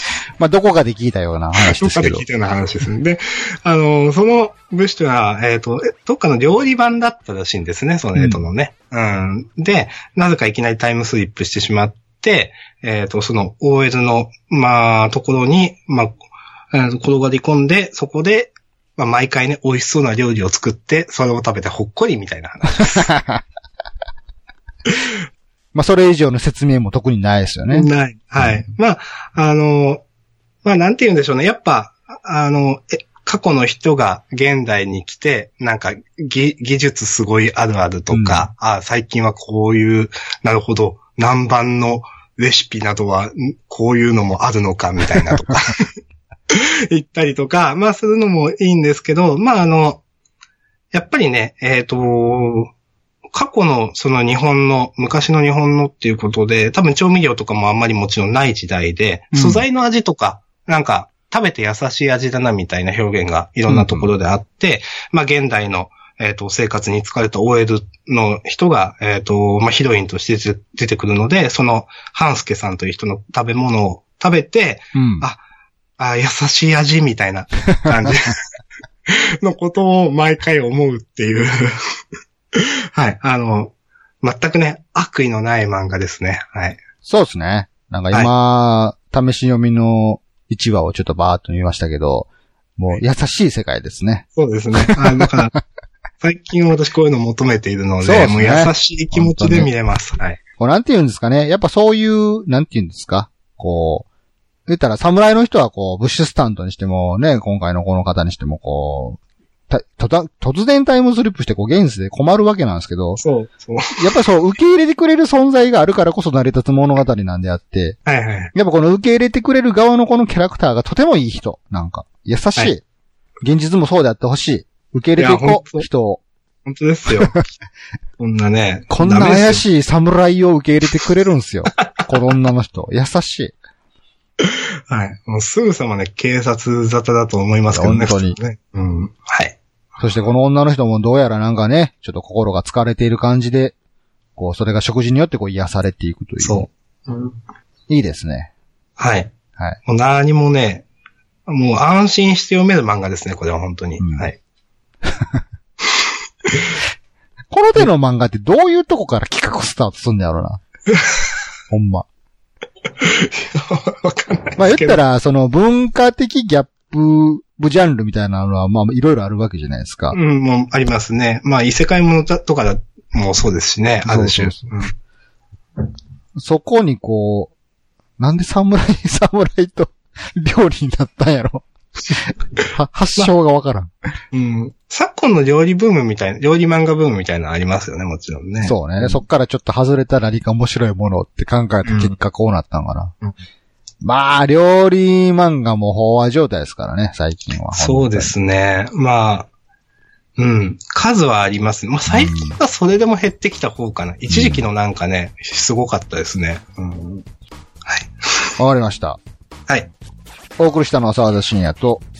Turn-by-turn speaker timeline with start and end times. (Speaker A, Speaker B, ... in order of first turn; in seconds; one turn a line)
Speaker A: 0.4-2.2
Speaker B: 1.6-16.1
Speaker A: 8.2-8.4
Speaker B: 16.7-23.1
Speaker A: 22.9-23.4
Speaker A: 25.7-27.9
Speaker B: 27.7-30.0
Speaker B: 30.6-45.9
Speaker A: 38.1-38.5
Speaker B: 46.5-50.0
Speaker B: 50.9-52.7
Speaker B: 53.3-75.4
Speaker A: 59.3-59.6
Speaker A: 63.7-64.1
Speaker A: 75.0-75.2
Speaker B: 76.0-78.4
Speaker B: 79.1-81.7
Speaker B: 82.6-86.8
Speaker A: 87.0-94.2
Speaker B: 94.3-95.5
Speaker A: 94.8-95.6
Speaker B: 96.2-100.4
Speaker A: 98.0-99.7
Speaker A: 100.6-104.1
Speaker A: 104.7-109.2
Speaker A: 109.7-113.2
Speaker B: 113.2-114.0
Speaker A: 114.0-118.0
Speaker B: 118.1-118.5
Speaker A: 118.5-122.8
Speaker A: 123.4-126.2
Speaker B: 125.2-125.9
Speaker B: 126.7-127.4
Speaker B: 128.2-129.6
Speaker A: 128.9-133.6
Speaker B: 134.4-139.6
Speaker A: 137.7-138.4
Speaker A: 140.0-143.8
Speaker A: 144.4-146.7
Speaker B: 146.4-147.4
Speaker A: 147.9-148.5
Speaker B: 149.0-149.3
Speaker B: 149.9-150.9
Speaker B: 151.5-154.4
Speaker A: 154.0-154.3
Speaker A: 157.5-160.6
Speaker A: 161.7-162.1
Speaker B: 163.0-165.0
Speaker A: 164.6-170.2
Speaker B: 170.1-174.9
Speaker A: 174.1-174.8
Speaker A: 176.4-177.5
Speaker A: 178.2-183.9
Speaker B: 184.3-189.2
Speaker A: 188.6-193.1
Speaker B: 191.8-192.1
Speaker A: 194.0-198.3
Speaker B: 197.7-199.5
Speaker B: 200.4-207.3
Speaker A: 202.1-202.6
Speaker A: 204.3-204.7
Speaker A: 208.6-209.2
Speaker A: 210.6-212.0